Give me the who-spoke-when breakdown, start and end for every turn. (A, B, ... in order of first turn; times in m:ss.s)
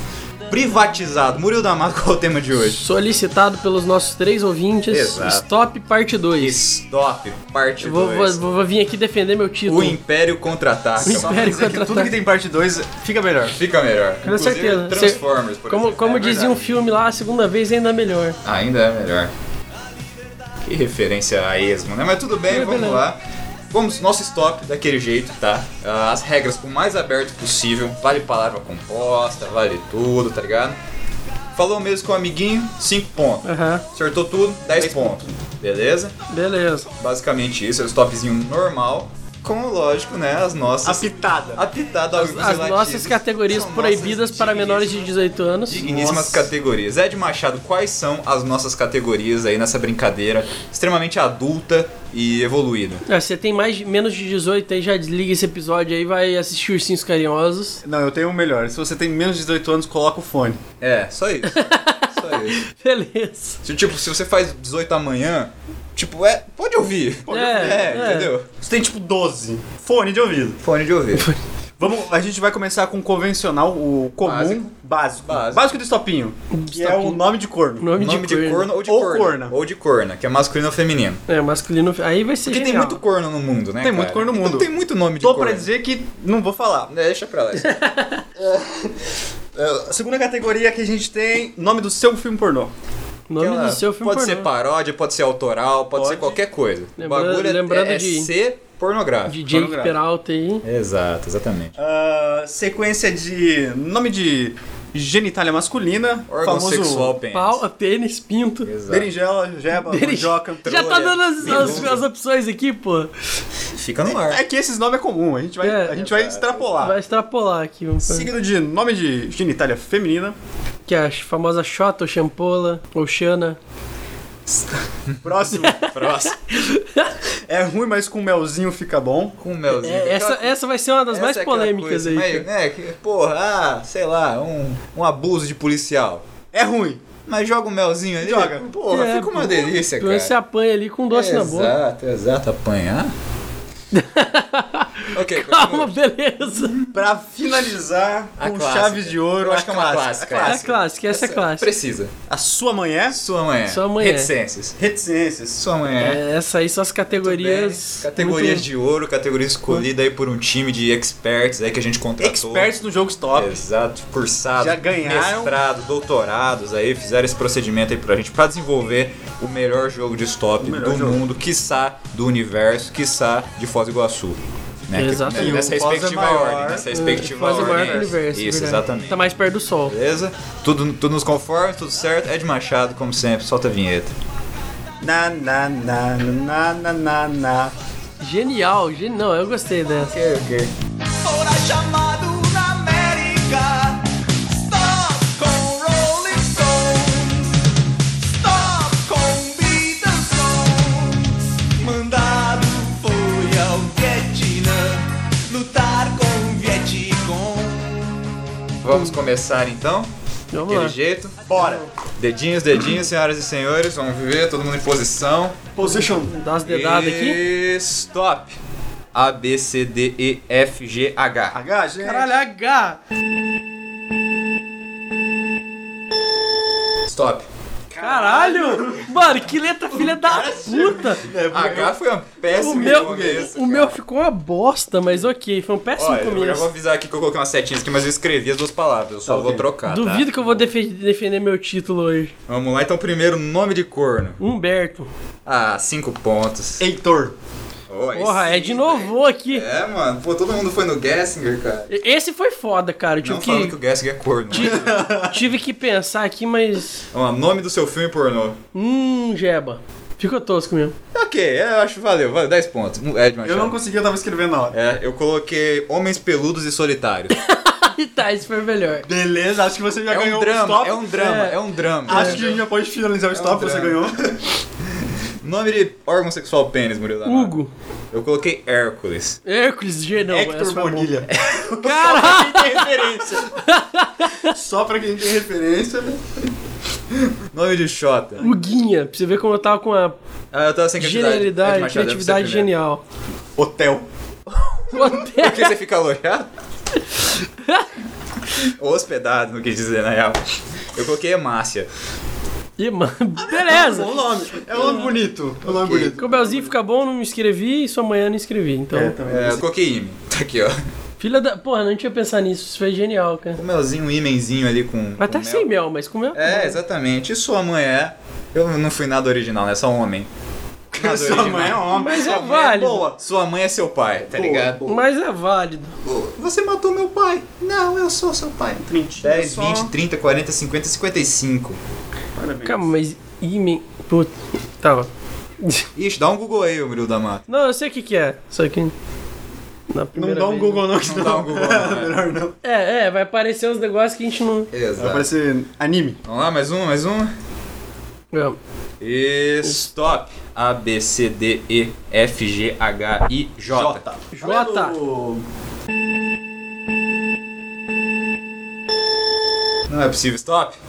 0:00.5-0:02.8 A
0:02.6-0:06.6 B
0:04.9-0:05.5 A
0:06.4-0:08.5 A
0:07.8-0:10.0 B
0:09.7-0:11.6 A
0:11.0-0:12.1 B
0:11.0-0:13.6 C
0:13.5-0:16.7 A
0:14.2-0:18.4 B
0:18.4-0:19.3 A
0:20.6-0:23.2 A
0:22.5-0:23.0 B
0:23.7-0:30.8 A
0:31.6-0:36.2 A
0:33.4-0:33.8 B
0:34.7-0:35.3 C
0:36.3-0:36.9 B
0:37.0-0:45.1 A
0:40.8-0:41.6 C
0:42.2-0:45.8 B
0:45.7-0:53.0 A
0:45.8-0:46.5 C
0:53.1-0:57.8 B
0:57.8-1:00.6 C
1:00.8-1:02.6 A
1:01.5-1:03.6 B
1:03.6-1:08.5 A
1:07.3-1:10.6 C
1:07.3-1:08.3 B
1:10.6-1:11.3 A
1:11.8-1:17.9 C
1:14.2-1:14.7 A
1:15.3-1:15.7 A
1:16.5-1:17.2 B
1:17.8-1:18.7 B
1:18.0-1:21.2 A
1:18.8-1:19.6 C
1:21.3-1:23.0 B
1:22.4-1:25.7 A
1:23.8-1:24.7 C
1:25.2-1:26.9 C
1:26.9-1:27.7 A
1:27.6-1:28.2 B
1:28.4-1:32.7 C
1:33.3-1:34.5 B
1:33.4-1:39.4 A
1:36.0-1:36.4 C
1:37.0-1:38.3 B
1:39.3-1:40.6 B
1:39.5-1:40.0 C
1:40.6-1:41.7 A
1:41.8-1:47.2 C
1:46.3-1:47.6 A
1:47.3-1:48.7 B
1:48.6-1:49.1 A
1:48.9-1:50.8 C
1:49.7-1:53.1 B
1:50.6-1:52.0 A
1:51.4-1:52.0 C
1:53.7-1:54.4 A
1:54.3-1:57.0 C
1:55.6-1:56.0 B
1:55.9-1:56.9 A
1:56.8-1:58.3 B
1:58.0-2:00.4 C
2:00.9-2:03.6 B
2:05.1-2:06.4 A
2:05.2-2:05.8 C
2:05.6-2:07.1 B
2:07.5-2:09.4 C
2:09.4-2:10.5 A
2:09.7-2:12.5 B
2:11.1-2:16.2 A
2:16.5-2:17.0 C
2:17.3-2:20.3 A
2:18.2-2:18.7 C
2:18.9-2:21.8 B
2:21.1-2:23.1 A
2:23.9-2:26.8 B
2:25.1-2:25.9 A
2:26.6-2:26.9 A
2:26.9-2:30.6 C
2:28.4-2:32.1 A
2:30.4-2:31.7 B
2:32.3-2:33.2 C
2:33.1-2:34.8 A
2:33.7-2:34.3 B
2:34.8-2:35.6 C
2:35.6-2:36.2 A
2:36.0-2:38.6 B
2:37.2-2:42.7 A
2:42.2-2:43.6 C
2:43.3-2:59.1 A
2:44.6-2:45.6 C
2:50.6-2:51.2 C
2:55.0-2:55.6 B
2:55.3-2:56.9 C
2:56.9-2:59.9 B
2:57.5-2:58.1 C
2:59.9-3:04.2 A
3:05.0-3:07.7 C
3:08.2-3:10.2 B
3:10.1-3:10.7 A
3:11.2-3:14.0 D
3:14.7-3:17.5 D
3:18.4-3:28.2 D
3:28.8-3:30.1 A
3:30.5-3:31.0 B
3:30.7-3:31.4 A
3:31.5-3:31.9 C
3:32.2-3:35.7 A
3:35.8-3:36.4 C
3:36.1-3:37.4 B
3:36.6-3:38.6 A
3:39.1-3:41.6 A
3:41.5-3:42.3 C
3:42.0-3:43.0 B
3:47.1-3:47.5 A
3:47.9-3:52.0 C
3:48.0-3:51.3 B
3:51.5-3:54.0 A
3:52.5-3:53.5 C
3:52.6-3:56.7 B
3:56.0-4:00.6 A
3:59.3-3:59.7 C
3:59.9-4:02.3 B
4:02.5-4:04.4 A
4:04.4-4:05.1 B
4:05.5-4:06.8 A
4:06.8-4:07.3 C
4:07.9-4:11.9 A
4:08.2-4:09.6 B
4:11.9-4:13.8 B
4:13.2-4:15.0 A
4:14.5-4:17.0 B
4:14.5-4:15.4 C
4:17.1-4:18.6 A
4:18.8-4:21.0 B
4:21.1-4:23.8 A
4:23.4-4:24.8 C
4:24.7-4:27.4 A
4:27.3-4:29.1 B
4:29.1-4:31.1 C
4:30.1-4:32.6 A
4:31.2-4:32.4 B
4:32.1-4:34.2 C
4:33.3-4:34.4 A
4:35.4-4:37.6 A
4:37.2-4:37.7 B
4:38.1-4:39.4 A
4:39.5-4:41.2 B
4:40.3-4:43.6 C
4:41.3-4:41.8 A
4:41.8-4:44.5 B
4:44.4-4:46.2 C
4:47.1-4:48.4 A
4:48.4-4:50.2 B
4:50.5-4:52.7 A
4:51.0-4:53.0 B
4:53.6-4:54.1 C
4:54.6-4:56.5 A
4:54.9-4:55.7 B
4:57.6-4:57.9 B
4:58.6-5:00.4 A
5:01.0-5:01.9 A
5:02.8-5:05.1 B
5:03.4-5:06.7 C
5:05.7-5:06.1 A
5:06.2-5:09.2 B
5:08.9-5:09.6 C
5:09.3-5:10.8 A
5:11.2-5:13.6 B
5:13.6-5:15.7 A
5:15.2-5:16.8 B
5:16.3-5:20.3 A
5:20.9-5:24.8 A
5:20.9-5:23.2 C
5:21.9-5:23.0 B
5:24.3-5:25.1 C
5:24.9-5:25.9 B
5:26.0-5:31.8 A
5:28.8-5:29.9 C
5:32.4-5:32.9 C
5:32.6-5:35.1 B
5:35.6-5:35.9 B
5:36.0-5:37.4 A
5:37.5-5:38.9 B
5:39.9-5:40.9 B
5:40.2-5:42.6 C
5:41.0-5:42.1 A
5:42.6-5:44.7 B
5:44.7-5:45.3 A
5:45.0-5:46.2 C
5:46.3-5:47.3 A
5:48.3-5:48.6 B
5:49.0-5:54.0 A
5:53.7-5:55.4 C
5:54.3-5:55.0 B
5:59.9-6:00.8 A